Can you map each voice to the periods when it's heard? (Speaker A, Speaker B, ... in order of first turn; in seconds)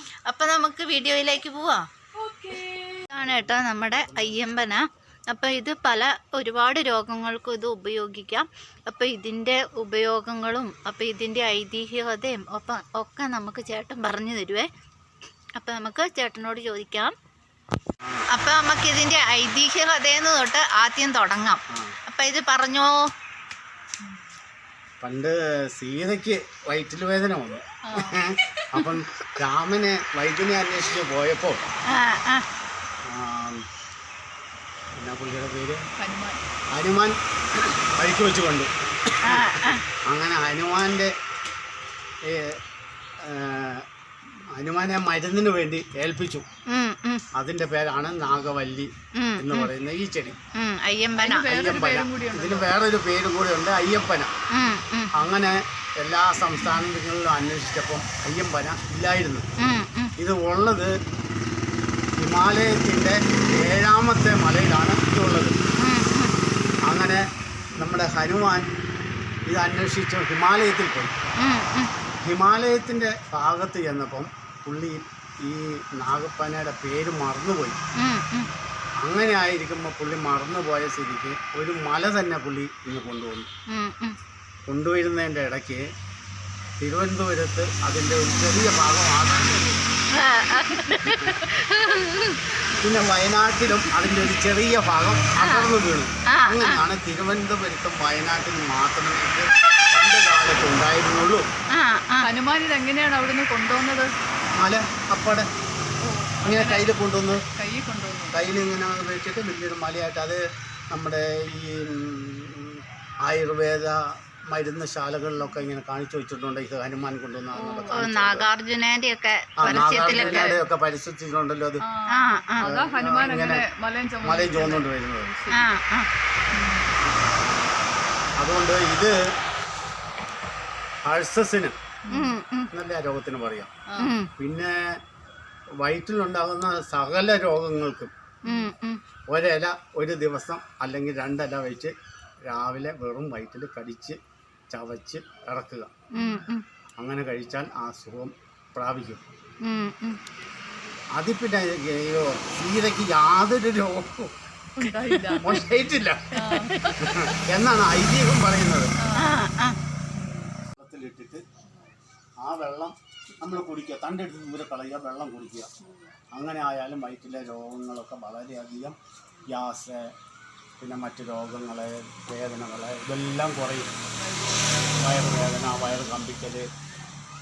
Speaker A: 0.3-1.8, 3.0-14.7, 15.6-17.1, 18.3-22.9, 31.9-32.5, 39.2-39.8, 46.7-47.2, 49.2-49.7, 50.5-51.5, 54.5-55.1, 59.6-60.1, 65.8-66.3, 71.4-71.9, 78.0-78.5, 83.7-84.2, 90.1-92.4, 95.4-95.7, 96.3-96.8, 101.7-102.3, 117.9-120.6, 122.1-122.7, 125.5-126.1, 132.1-132.7, 134.0-134.3, 138.4-139.0, 146.1-146.7, 149.6-150.2, 159.2-159.8
Speaker B: 2.2-3.0, 27.9-28.9, 36.0-36.4, 51.2-52.7, 90.9-91.2, 102.2-104.1, 106.0-108.5, 117.5-118.1, 119.7-120.6, 121.8-125.6, 126.5-127.0, 132.1-132.4, 138.4-138.7, 146.1-146.5, 154.8-155.6, 156.3-157.3, 159.0-159.4, 160.0-160.5, 165.8-166.1, 174.2-175.2, 176.9-177.2
Speaker C: 3.1-4.4, 25.0-31.6, 33.1-33.6, 35.0-35.8, 36.7-38.7, 39.2-41.1, 43.2-43.8, 44.5-46.4, 47.4-48.9, 49.4-50.4, 51.4-54.3, 55.1-59.4, 60.2-60.9, 62.2-65.5, 66.9-67.2, 67.8-68.7, 69.5-71.1, 72.2-77.8, 79.0-83.5, 84.7-85.8, 86.8-89.8, 91.0-91.4, 92.8-101.4, 104.5-105.5, 106.4-107.4, 108.3-110.4, 110.9-114.0, 114.5-118.5, 119.6-121.8, 122.6-123.6, 124.2-125.4, 128.4-129.2, 131.1-131.7, 132.7-133.7, 134.4-134.7, 135.8-138.1, 139.3-141.9, 142.5-144.2, 144.7-145.9, 147.0-149.2, 151.2-154.3, 155.3-156.3, 157.0-158.9, 160.7-161.4, 162.4-165.7, 166.3-169.0, 169.5-170.1, 170.8-173.9, 175.0-176.7